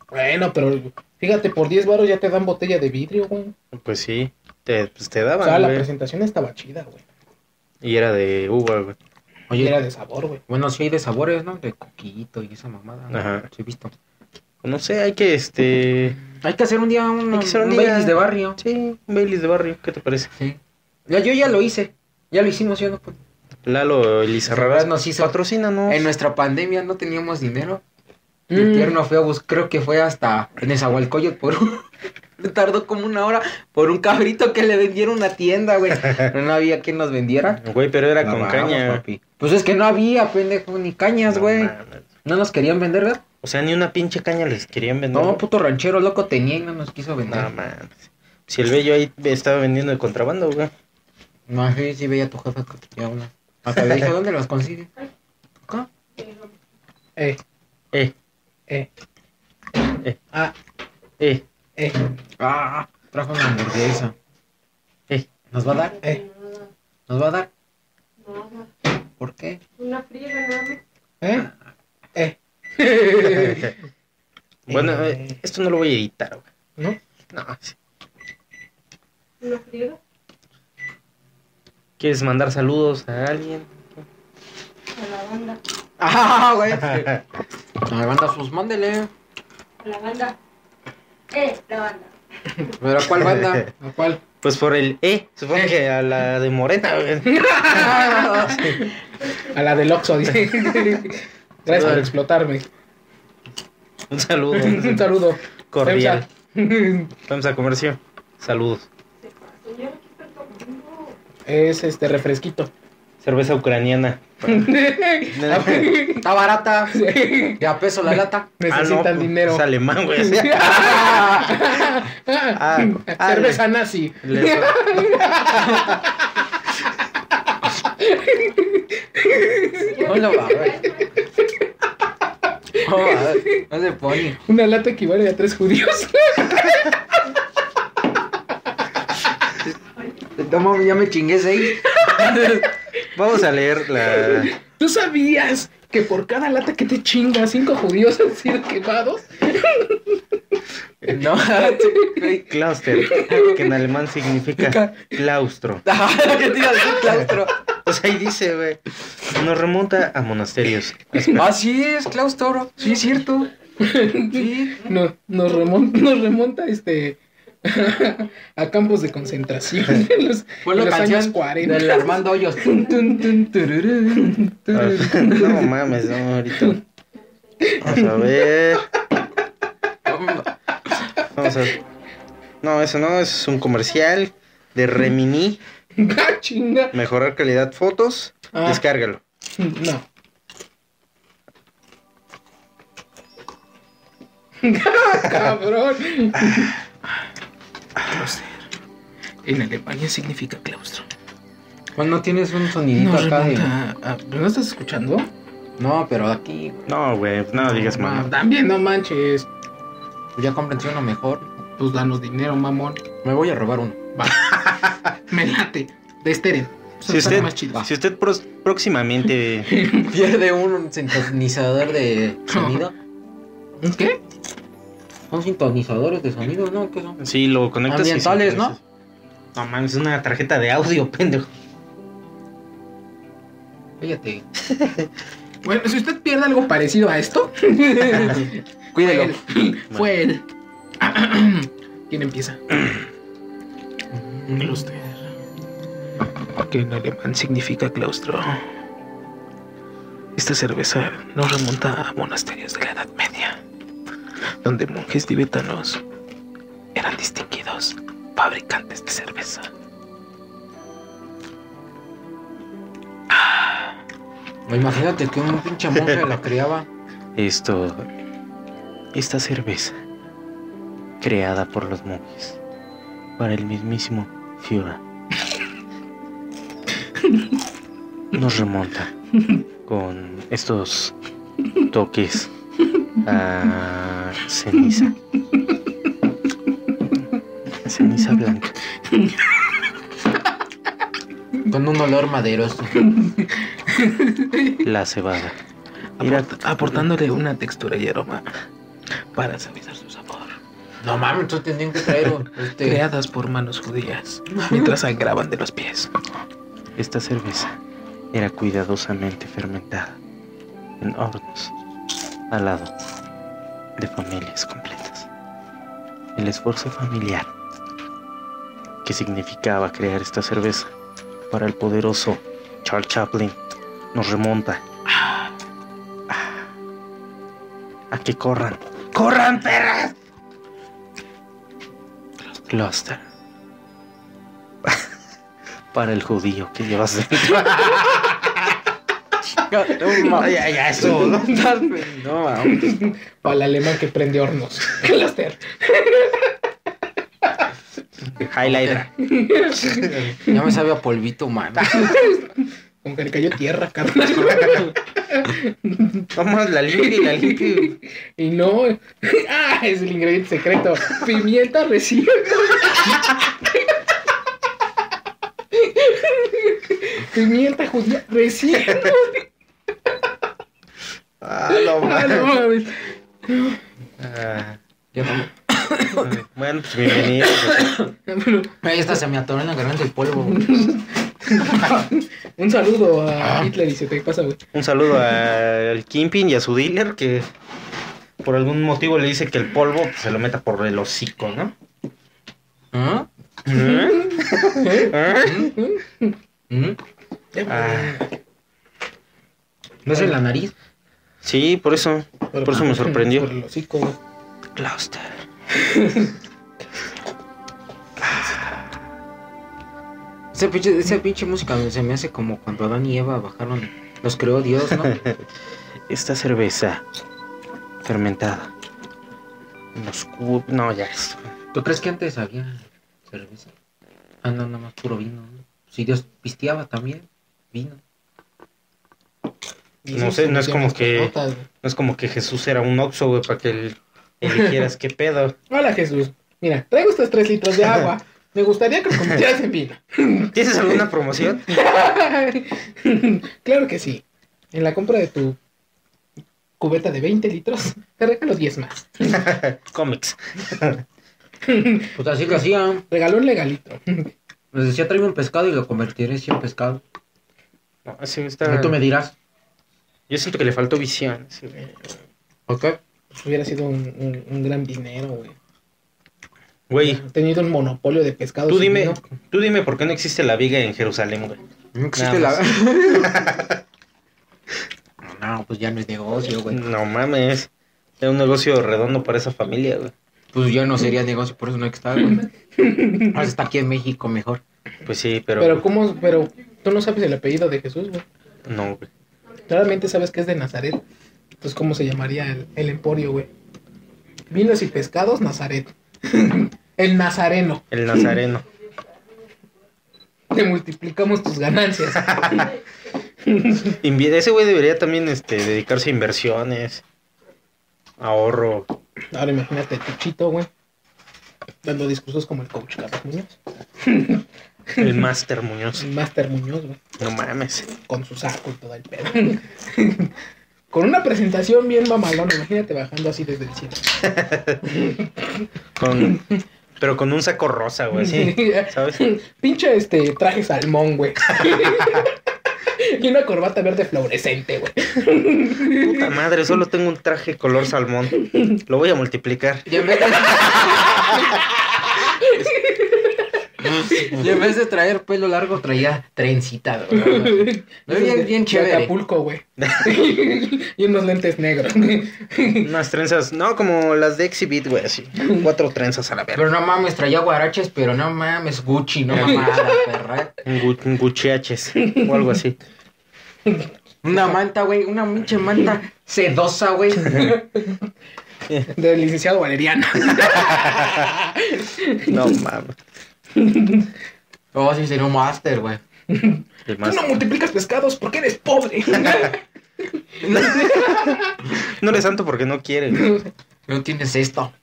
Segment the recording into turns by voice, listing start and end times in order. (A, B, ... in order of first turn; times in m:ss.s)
0:00.1-0:03.5 A
0:03.7-0:05.9 B
0:05.4-0:07.0 A
0:07.8-0:09.0 B
0:09.5-0:09.8 C
0:09.5-0:10.4 A
0:10.5-0:13.9 C
0:13.1-0:13.5 B
0:14.6-0:16.2 B
0:16.4-0:18.6 C
0:17.3-0:20.3 B
0:20.4-0:23.2 C
0:23.6-0:26.0 B
0:24.5-0:27.8 C
0:28.5-0:29.0 A
0:28.5-0:37.6 C
0:37.6-0:39.0 B
0:38.2-0:41.7 C
0:41.3-0:42.0 B
0:42.2-0:43.2 C
0:43.4-0:45.4 B
0:45.1-0:47.5 C
0:47.3-0:47.9 B
0:48.5-0:50.7 B
0:51.5-0:54.9 C
0:53.7-0:54.0 B
0:56.2-0:56.4 D
1:02.4-1:04.1 C
1:05.5-1:06.0 C
1:05.9-1:06.7 D
1:07.1-1:07.5 C
1:08.2-1:08.7 D
1:09.2-1:09.6 C
1:09.8-1:10.8 D
1:11.2-1:11.5 A
1:12.2-1:13.7 A
1:13.2-1:13.7 B
1:14.7-1:16.4 B
1:14.7-1:15.3 A
1:17.3-1:17.7 B
1:19.4-1:20.0 D
1:22.0-1:24.0 B
1:24.9-1:25.6 D
1:26.0-1:27.1 C
1:26.9-1:27.2 B
1:27.8-1:29.1 C
1:29.8-1:30.4 D
1:31.3-1:32.1 D
1:32.8-1:33.7 C
1:33.2-1:33.6 B
1:33.8-1:34.2 A
1:34.4-1:37.9 B
1:37.3-1:42.7 A
1:37.7-1:38.8 C
1:41.7-1:42.1 B
1:44.1-1:45.1 B
1:44.5-1:47.1 A
1:45.7-1:46.2 B
1:47.3-1:48.8 B
1:49.2-1:51.2 D
1:51.4-1:52.7 A
1:53.2-1:54.8 B
1:54.4-1:56.3 A
1:55.3-1:55.9 B
1:56.1-1:57.0 C
1:56.9-1:59.6 A
1:57.6-1:58.5 C
1:58.7-2:01.2 B
2:00.2-2:06.2 A
2:00.7-2:01.6 C
2:02.5-2:03.6 B
2:04.2-2:05.8 B
2:07.4-2:10.0 A
2:09.8-2:11.2 D
2:10.0-2:10.9 C
2:12.8-2:13.6 A
2:12.8-2:14.4 C
2:14.4-2:16.9 A
2:20.4-2:22.7 C
2:21.9-2:22.6 A
2:23.1-2:24.5 B
2:24.0-2:30.2 A
2:31.1-2:32.5 C
2:31.5-2:32.4 A
2:32.4-2:35.8 B
2:32.9-2:33.6 A
2:33.3-2:33.6 C
2:34.6-2:35.1 A
2:35.8-2:37.5 C
2:37.8-2:41.5 B
2:41.3-2:43.5 C
2:43.8-2:55.7 A
2:44.3-2:45.0 C
2:50.6-2:54.4 C
2:54.7-2:56.8 B
2:57.6-2:58.3 A
2:57.8-2:58.9 B
3:00.0-3:00.5 C
3:01.3-3:01.8 B
3:02.6-3:05.6 B
3:06.0-3:06.9 A
3:06.9-3:09.2 B
3:08.5-3:08.8 A
3:09.6-3:10.0 A
3:14.6-3:16.8 A
3:18.0-3:18.6 A
3:19.4-3:21.1 A
3:21.9-3:23.7 C
3:22.9-3:25.3 A
3:25.8-3:26.9 C
3:26.9-3:28.3 B
3:27.6-3:29.5 A
3:30.3-3:31.5 C
3:31.8-3:33.0 A
3:33.2-3:34.0 C
3:34.2-3:37.8 A
3:37.1-3:39.7 B
3:37.1-3:37.9 C
3:39.7-3:40.1 A
3:39.9-3:42.9 C
3:42.5-3:42.8 A
3:43.8-3:44.2 A
3:45.3-3:47.2 C
3:47.2-3:48.8 B
3:47.9-3:48.8 C
3:49.5-3:51.5 B
3:54.0-3:54.4 C
3:55.6-4:00.4 A
3:58.0-3:59.4 C
4:01.0-4:02.8 A
4:04.1-4:04.8 C
4:04.6-4:05.2 A
4:06.6-4:08.6 A
4:10.4-4:13.6 A
4:14.6-4:16.0 A
4:16.9-4:19.7 A
4:24.6-4:26.9 C
4:27.4-4:28.0 B
4:29.1-4:30.0 B
4:31.2-4:32.6 B
4:33.4-4:35.0 B
4:38.3-4:39.1 B
4:39.9-4:41.1 B
4:41.9-4:42.5 B
4:43.2-4:45.2 B
4:47.8-4:48.7 B
4:49.1-4:49.4 A
4:51.7-4:52.9 C
4:53.0-4:54.8 A
4:54.8-4:55.6 B
4:56.2-4:58.5 A
4:56.2-4:56.5 B
4:59.2-5:00.6 A
5:01.0-5:03.0 C
5:02.8-5:06.1 A
5:04.5-5:05.0 C
5:07.0-5:07.8 B
5:08.3-5:10.2 B
5:11.0-5:11.7 B
5:12.5-5:12.9 B
5:14.0-5:15.3 B
5:16.4-5:17.5 B
5:19.0-5:20.9 B
5:21.5-5:23.6 B
5:24.1-5:24.8 B
5:26.3-5:26.6 B
5:28.1-5:30.1 B
5:32.6-5:33.2 B
5:35.9-5:38.8 B
5:39.5-5:42.9 C
5:40.2-5:41.6 B
5:42.6-5:46.6 A
5:48.3-5:49.1 B
5:48.6-5:49.0 C
5:49.2-5:50.6 A
5:49.8-5:50.2 B
5:50.4-5:52.2 C
5:51.8-5:56.3 A
5:54.5-5:54.7 B
5:56.3-5:58.0 B
5:56.9-6:04.0 A
6:05.7-6:09.4 A
6:11.4-6:12.5 B
6:11.7-6:13.8 A
6:14.2-6:14.8 B
6:15.1-6:16.1 C
6:16.2-6:18.0 B
6:18.2-6:18.8 A
6:18.8-6:20.6 C
6:20.5-6:24.6 A
6:23.4-6:23.7 C
6:24.7-6:27.5 B
6:28.4-6:31.7 B
6:32.9-6:33.3 C
6:33.6-6:35.7 B
6:33.7-6:36.3 A
6:35.4-6:35.7 C
6:36.7-6:37.0 C
6:37.5-6:38.3 A
6:37.7-6:38.2 B
6:40.0-6:40.7 C
6:41.4-6:43.5 B
6:42.5-6:44.2 A
6:44.8-6:45.4 B
6:45.7-6:46.3 A
6:48.2-6:48.8 B
6:50.5-6:55.2 C
6:55.0-6:55.4 B
6:56.1-6:57.0 B
6:58.0-6:58.7 B
6:59.9-7:01.4 B
7:01.7-7:03.7 C
7:04.4-7:08.0 C
7:10.0-7:11.7 A
7:10.1-7:11.3 B
7:11.8-7:15.6 B
7:14.4-7:14.8 A
7:15.7-7:20.5 A
7:20.5-7:21.8 B
7:21.6-7:25.6 A
7:26.8-7:29.5 A
7:29.3-7:31.0 B
7:31.6-7:32.2 A
7:32.2-7:33.0 C
7:33.1-7:34.3 A
7:34.7-7:37.0 C
7:38.0-7:39.0 B
7:38.6-7:39.3 C
7:40.3-7:42.0 B
7:42.7-7:43.0 C
7:43.3-7:45.6 A
7:46.9-7:47.2 B
7:47.0-7:49.2 A
7:48.7-7:51.6 B
7:51.9-7:53.5 C
7:52.2-7:53.8 B
7:55.2-7:56.8 C
7:56.7-7:57.7 B
7:58.2-8:00.1 B
8:00.5-8:02.4 C
8:02.3-8:03.4 A
8:03.3-8:04.6 C
8:05.0-8:05.8 B
8:05.6-8:08.2 A
8:08.6-8:09.1 B
8:09.7-8:11.0 A
8:11.6-8:13.5 A
8:14.5-8:18.4 A
8:17.9-8:18.6 B
8:20.5-8:22.7 A
8:22.2-8:22.7 B
8:23.4-8:24.0 A
8:24.0-8:27.0 B
8:28.2-8:28.9 B
8:29.3-8:30.7 A
8:31.8-8:35.2 A
8:35.0-8:36.0 B
8:36.0-8:37.0 A
8:37.2-8:37.9 B
8:38.0-8:40.3 A
8:40.9-8:44.2 A
8:44.4-8:44.7 B
8:44.8-8:45.7 A
8:46.0-8:46.5 B
8:47.0-8:49.2 B
8:48.1-8:52.3 A
8:51.6-8:52.2 B
8:52.9-8:56.3 A
8:55.8-8:59.9 B
8:59.8-9:01.3 C
9:00.6-9:03.5 A
9:00.6-9:01.2 B
9:03.8-9:09.1 C
9:04.1-9:04.4 A
9:07.1-9:12.9 A
9:09.8-9:10.1 B
9:12.8-9:16.7 B
9:15.4-9:15.6 A
9:16.5-9:20.6 C
9:19.3-9:19.7 B
9:19.4-9:20.0 A
9:20.6-9:22.8 B
9:22.0-9:22.3 A
9:24.2-9:27.6 C
9:27.2-9:28.0 A
9:28.9-9:32.6 A
9:30.5-9:31.1 B
9:32.3-9:33.0 B
9:33.5-9:34.1 A
9:34.7-9:36.0 C
9:36.3-9:41.8 A
9:36.9-9:37.4 B
9:40.4-9:41.1 C
9:40.8-9:43.3 B
9:43.1-9:43.5 A
9:43.9-9:44.7 C